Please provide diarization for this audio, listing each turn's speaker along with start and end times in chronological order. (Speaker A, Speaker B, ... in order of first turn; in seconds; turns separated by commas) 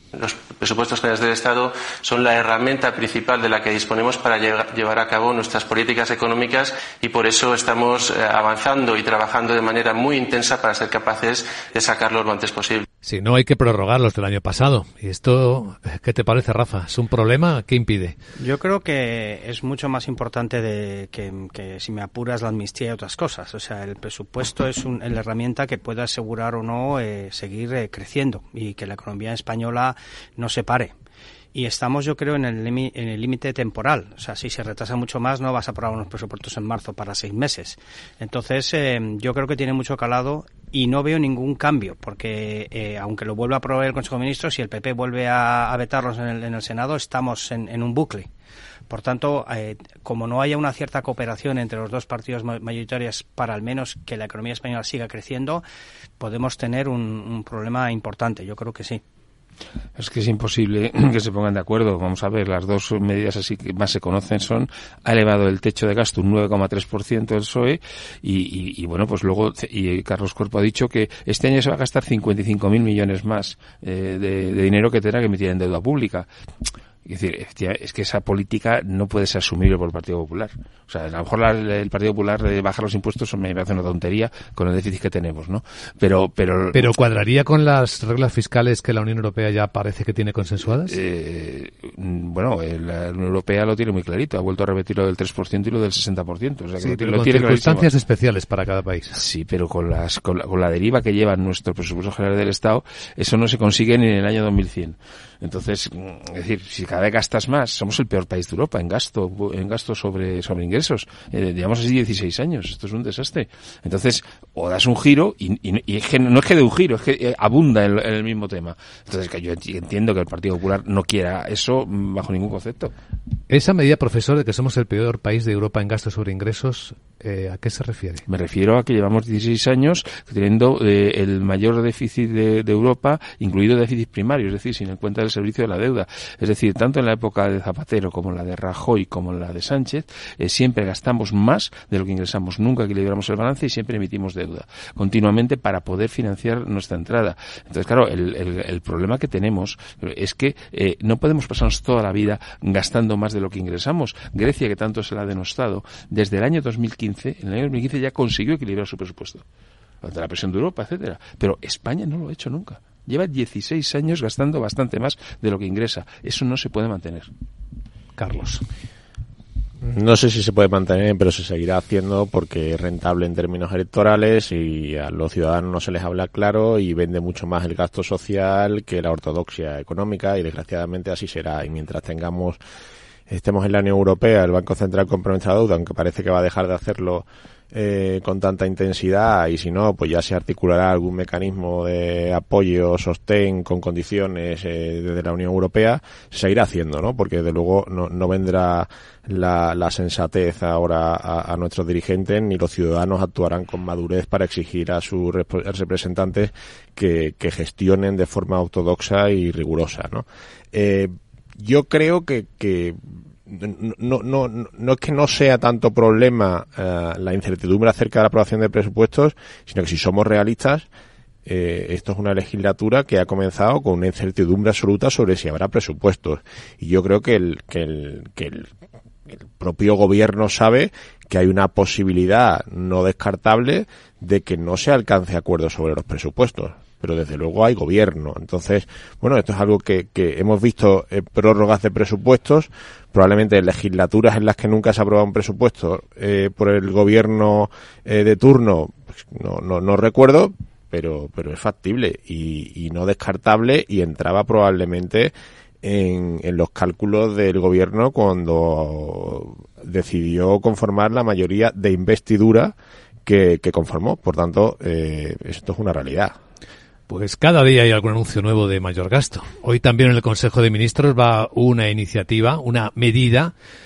Speaker A: 0.1-12.8, Speaker B: 13.0-18.1, Speaker C: 18.4-30.9, Speaker C: 31.5-48.3, Speaker C: 48.9-55.6, Speaker C: 56.2-59.0, Speaker D: 60.0-76.3, Speaker D: 77.0-86.9, Speaker B: 86.7-91.0, Speaker D: 90.8-97.9, Speaker B: 96.8-99.2, Speaker D: 99.1-122.9, Speaker B: 123.5-128.2, Speaker D: 128.3-159.4, Speaker D: 160.0-167.3, Speaker B: 168.2-168.6, Speaker E: 169.8-182.6, Speaker E: 183.3-220.9, Speaker E: 221.4-228.7, Speaker E: 229.6-262.7, Speaker E: 263.2-266.3, Speaker B: 267.1-273.5